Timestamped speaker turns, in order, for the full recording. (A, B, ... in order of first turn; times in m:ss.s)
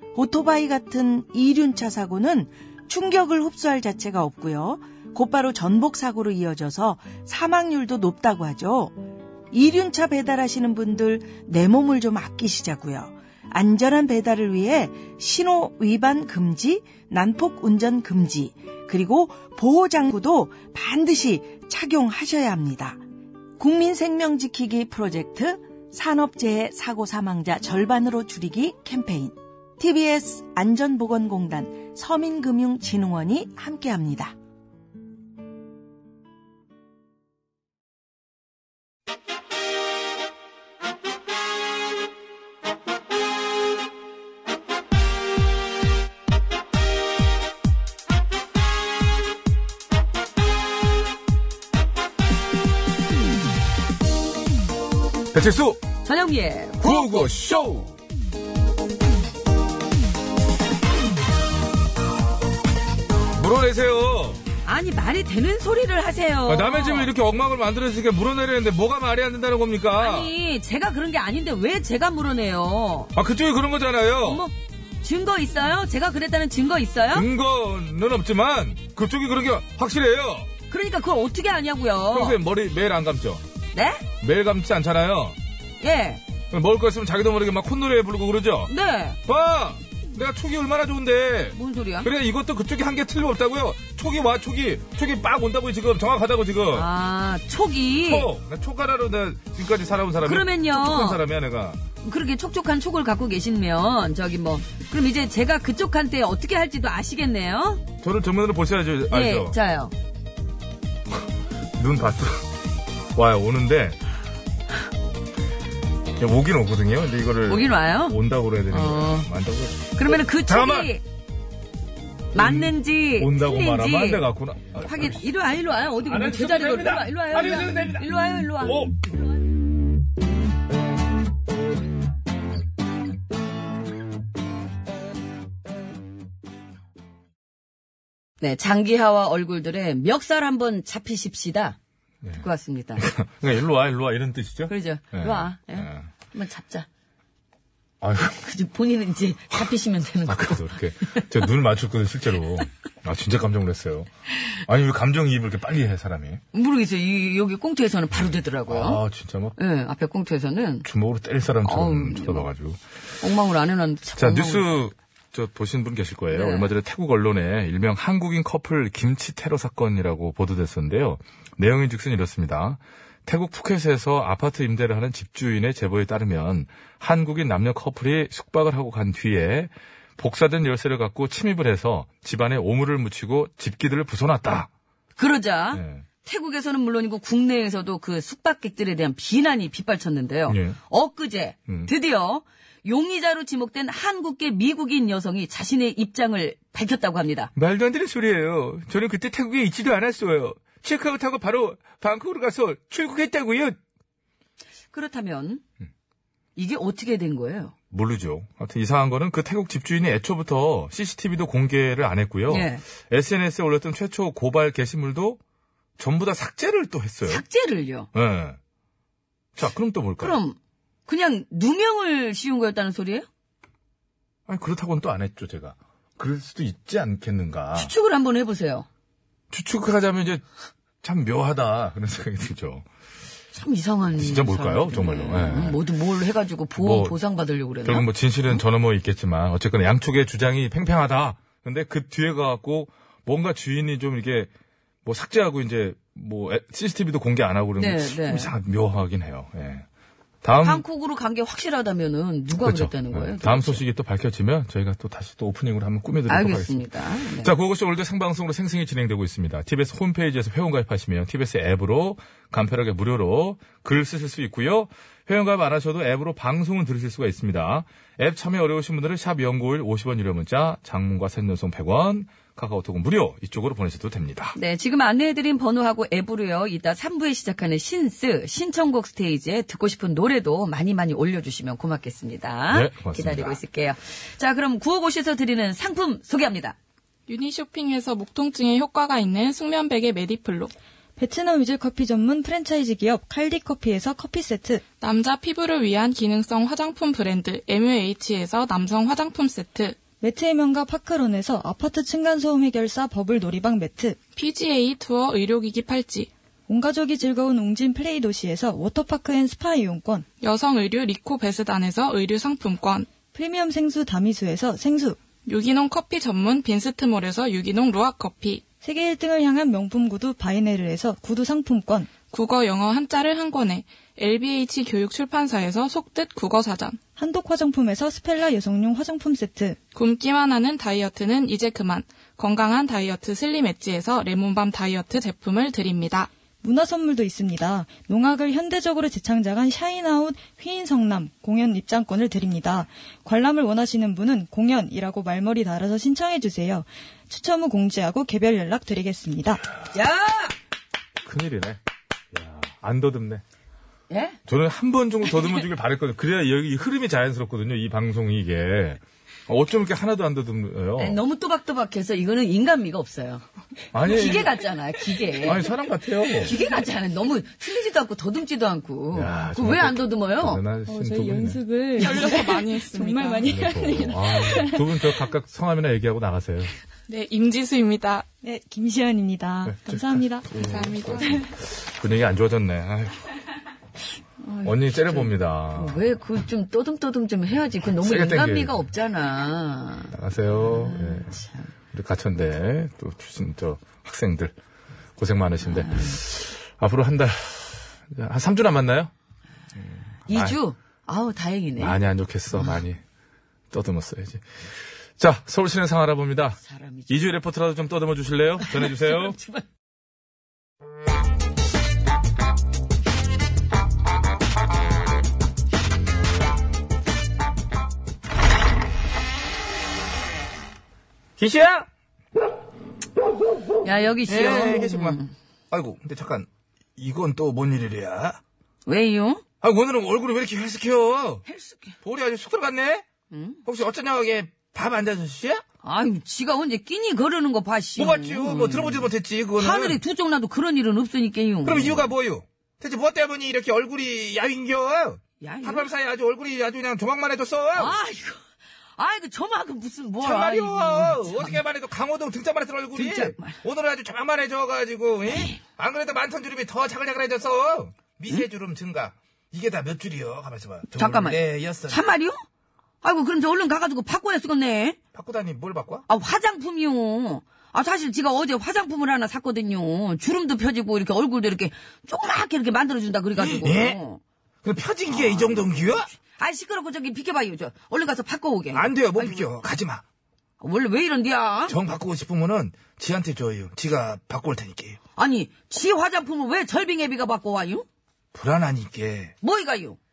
0:00.1-0:23.0 A
0:23.6-0:34.3 A
0:55.3-0:55.8 B
0:56.0-0:57.3 C
0:56.8-0:58.0 B
1:03.4-1:04.4 B
1:04.6-1:07.1 C
1:06.5-1:10.3 B
1:10.0-1:13.1 C
1:13.1-1:14.4 B
1:14.2-1:17.2 C
1:17.1-1:20.5 B
1:20.7-1:22.4 C
1:22.1-1:23.4 B
1:23.7-1:24.0 C
1:24.2-1:25.4 B
1:25.8-1:26.2 C
1:26.5-1:28.7 B
1:28.7-1:29.2 C
1:29.2-1:36.9 B
1:31.5-1:32.1 C
1:36.7-1:38.3 C
1:38.1-1:41.8 B
1:40.2-1:41.2 C
1:42.0-1:47.8 C
1:48.0-1:49.5 B
1:49.1-1:49.9 C
1:51.8-1:52.4 B
1:53.1-1:54.0 B
1:56.2-2:00.9 B
1:57.5-1:58.2 C
1:58.7-1:59.3 C
2:00.0-2:01.0 C
2:02.3-2:04.2 C
2:02.4-2:05.2 B
2:04.8-2:09.0 C
2:06.0-2:09.0 B
2:18.4-2:21.8 C
2:22.4-2:23.0 C
2:23.0-2:26.1 B
2:24.7-2:26.9 C
2:28.0-2:28.4 B
2:28.4-2:31.3 C
2:30.3-2:34.1 B
2:34.6-2:36.4 B
2:36.5-2:39.0 C
2:38.7-2:39.6 B
2:39.6-2:40.9 C
2:40.8-2:42.8 B
2:41.6-2:42.5 C
2:43.2-2:44.6 C
2:44.2-3:04.7 B
2:46.3-2:46.7 C
3:05.2-3:17.5 C
3:05.7-3:06.0 B
3:10.5-3:10.8 B
3:17.6-3:23.7 B
3:24.9-3:25.6 C
3:26.6-3:27.7 C
3:27.9-3:35.4 B
3:32.5-3:32.8 C
3:36.0-3:37.4 B
3:37.2-3:38.1 C
3:38.1-3:38.6 B
3:39.6-3:40.4 B
3:40.2-3:43.2 C
3:44.5-3:47.9 B
3:47.7-3:48.8 C
3:49.5-3:50.4 B
3:51.0-3:52.8 B
3:53.5-3:58.6 C
3:54.2-3:55.8 B
3:56.8-3:57.1 B
3:57.8-4:04.5 B
4:05.0-4:09.8 B
4:07.8-4:08.5 C
4:10.4-4:10.8 B
4:10.6-4:13.8 C
4:12.6-4:34.6 B
4:16.3-4:17.5 C
4:34.5-4:46.8 C
4:42.7-4:43.6 B
4:47.3-4:50.7 D
4:51.2-4:54.8 E
4:55.0-5:00.0 D
5:00.2-5:04.2 E
5:04.4-5:06.3 D
5:06.7-5:10.2 E
5:10.4-5:13.1 D
5:13.3-5:15.2 E
5:15.4-5:18.6 D
5:18.8-5:22.1 E
5:22.2-5:27.0 D
5:27.2-5:29.8 E
5:29.9-5:36.3 D
5:36.6-5:49.6 E
5:49.9-5:50.6 C
5:51.2-5:51.8 B
5:52.3-5:53.4 B
5:54.1-5:54.4 C
5:54.5-6:01.2 B
6:01.0-6:03.4 C
6:03.9-6:04.6 B
6:04.0-6:05.6 C
6:05.4-6:06.5 B
6:06.4-6:10.6 C
6:09.1-6:11.6 B
6:10.9-6:14.8 E
6:11.9-6:14.0 D
6:13.4-6:16.7 B
6:17.1-6:18.2 D
6:18.4-6:20.5 E
6:19.6-6:23.2 B
6:20.6-6:21.4 D
6:24.4-6:31.7 C
6:24.6-6:26.0 B
6:28.0-6:28.7 B
6:30.1-6:31.3 B
6:31.9-6:34.5 B
6:35.2-6:39.1 B
6:35.6-6:36.2 C
6:39.8-6:40.6 B
6:40.3-6:42.0 C
6:41.8-6:43.0 B
6:43.7-6:44.4 B
6:45.2-6:49.4 B
6:46.6-6:47.2 C
6:48.6-6:49.6 C
7:01.4-7:01.9 B
7:03.8-7:05.3 C
7:04.3-7:05.2 B
7:05.7-7:08.4 B
7:08.8-7:09.4 C
7:09.6-7:11.4 B
7:11.5-7:11.9 C
7:12.0-7:13.0 B
7:13.3-7:13.6 C
7:13.6-7:15.6 B
7:15.8-7:19.1 C
7:18.0-7:20.0 B
7:19.6-7:22.0 C
7:21.6-7:28.0 B
7:25.4-7:25.9 C
7:27.8-7:28.4 C
7:29.0-7:31.6 C
7:30.2-7:42.0 B
7:32.9-7:33.6 C
7:35.3-7:35.6 C
7:40.9-7:42.4 C
7:43.0-7:45.0 C
7:45.1-7:46.0 B
7:46.1-7:54.2 C
7:53.4-7:54.0 B
7:54.6-7:56.1 B
7:55.1-7:59.5 C
7:58.7-8:00.0 B
8:00.6-8:01.7 C
8:01.7-8:05.0 B
8:05.2-8:07.8 C
8:08.3-8:09.3 B
8:09.4-8:10.0 C